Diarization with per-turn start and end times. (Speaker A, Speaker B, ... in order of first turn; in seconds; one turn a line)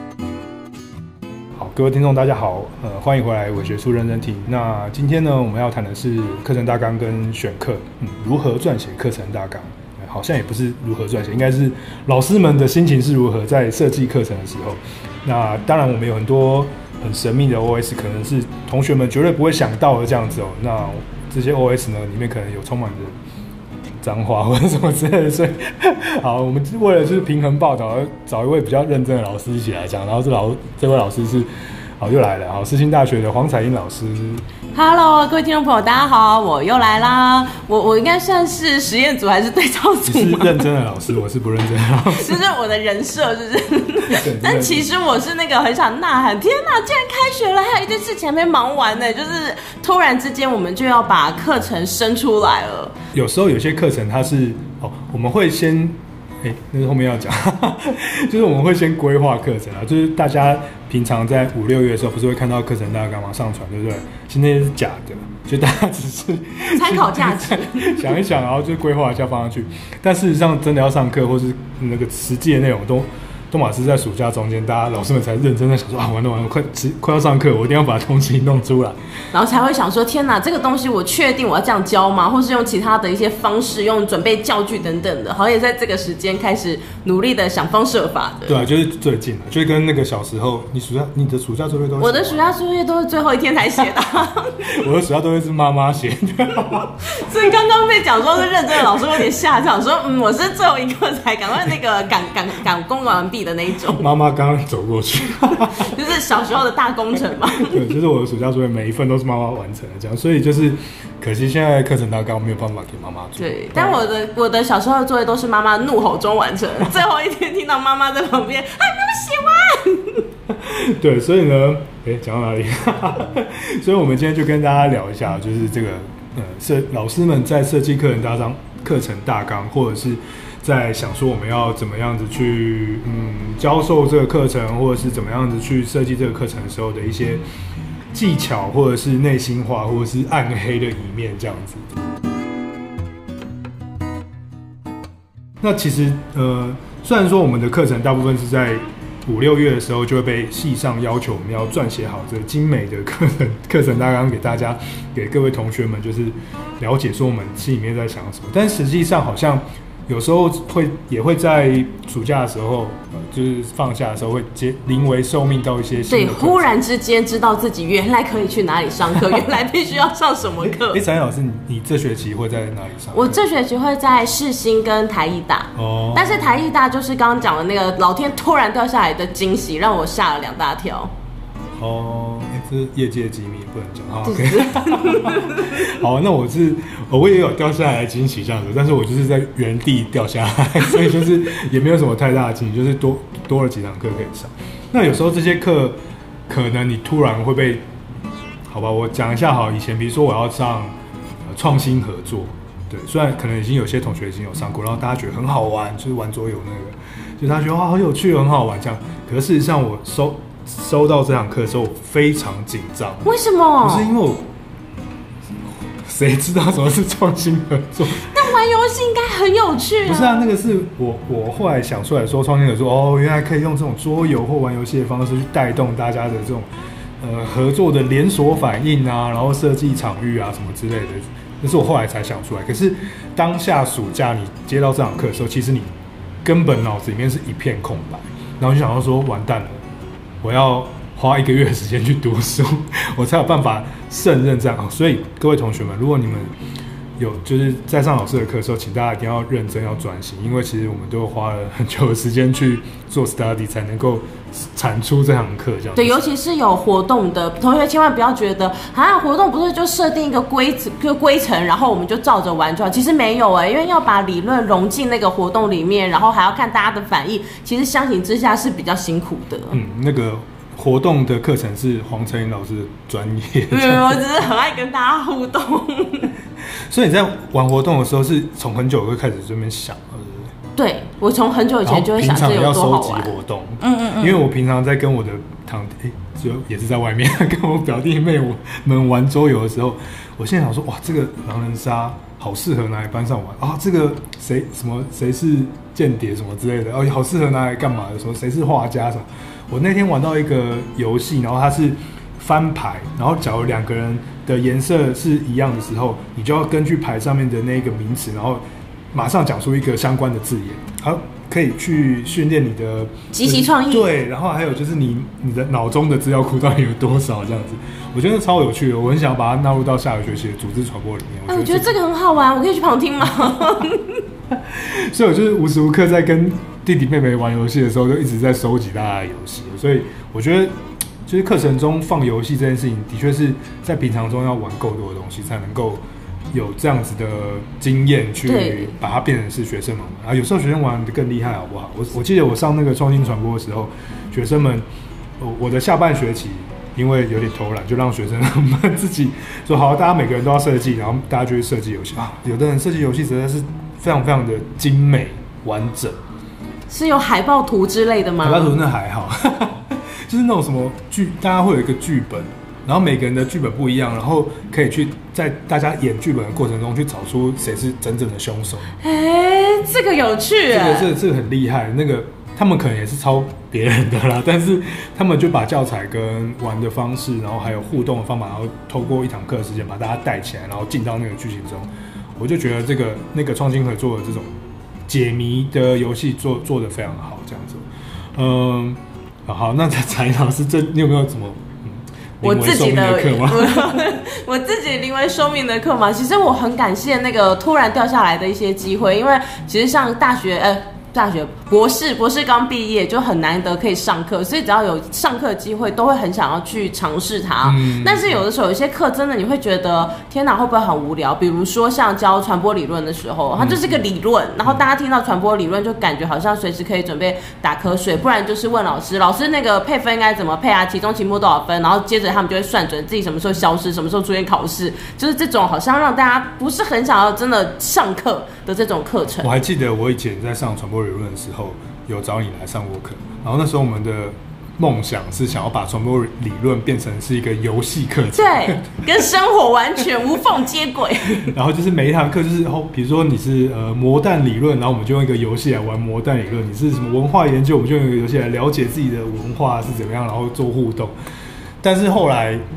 Speaker A: 1.6-23.2
Speaker A: 24.0-34.4
Speaker B: 34.7-40.6
Speaker A: 40.0-42.4
Speaker B: 42.1-53.0
Speaker A: 44.1-44.9
Speaker A: 53.1-79.0
Speaker B: 66.7-68.1
Speaker B: 79.3-88.6
Speaker A: 88.5-92.5
Speaker B: 92.0-94.6
Speaker A: 94.6-97.0
Speaker B: 97.0-104.1
Speaker A: 103.9-106.0
Speaker B: 105.6-107.8
Speaker A: 107.6-114.0
Speaker B: 113.4-120.2
Speaker A: 120.5-137.4
Speaker A: 138.1-141.9
Speaker A: 145.6-166.8
Speaker B: 166.1-171.0
Speaker A: 170.6-173.5
Speaker B: 173.1-181.1
Speaker A: 175.8-176.5
Speaker A: 181.8-197.8
Speaker B: 184.2-185.8
Speaker A: 198.7-200.9
Speaker A: 201.5-213.3
Speaker B: 213.2-214.1
Speaker A: 213.8-214.5
Speaker A: 216.0-218.3
Speaker B: 218.3-220.5
Speaker A: 220.0-235.9
Speaker A: 236.4-239.8
Speaker A: 240.4-246.5
Speaker A: 247.2-256.2
Speaker B: 255.9-269.8
Speaker A: 269.7-274.2
Speaker B: 273.7-276.3
Speaker A: 276.9-280.5
Speaker B: 280.8-284.4
Speaker A: 281.8-308.6
Speaker A: 309.1-321.9
Speaker B: 313.3-314.1
Speaker B: 321.5-324.2
Speaker A: 324.5-330.7
Speaker A: 331.2-344.9
Speaker B: 338.4-338.9
Speaker A: 345.4-356.2
Speaker B: 356.9-358.8
Speaker A: 358.4-368.9
Speaker B: 369.0-371.1
Speaker A: 370.7-394.0
Speaker B: 392.4-429.5
Speaker A: 407.6-408.4
Speaker A: 413.6-413.9
Speaker A: 429.4-439.2
Speaker B: 438.3-441.5
Speaker A: 441.4-451.1
Speaker A: 451.8-452.6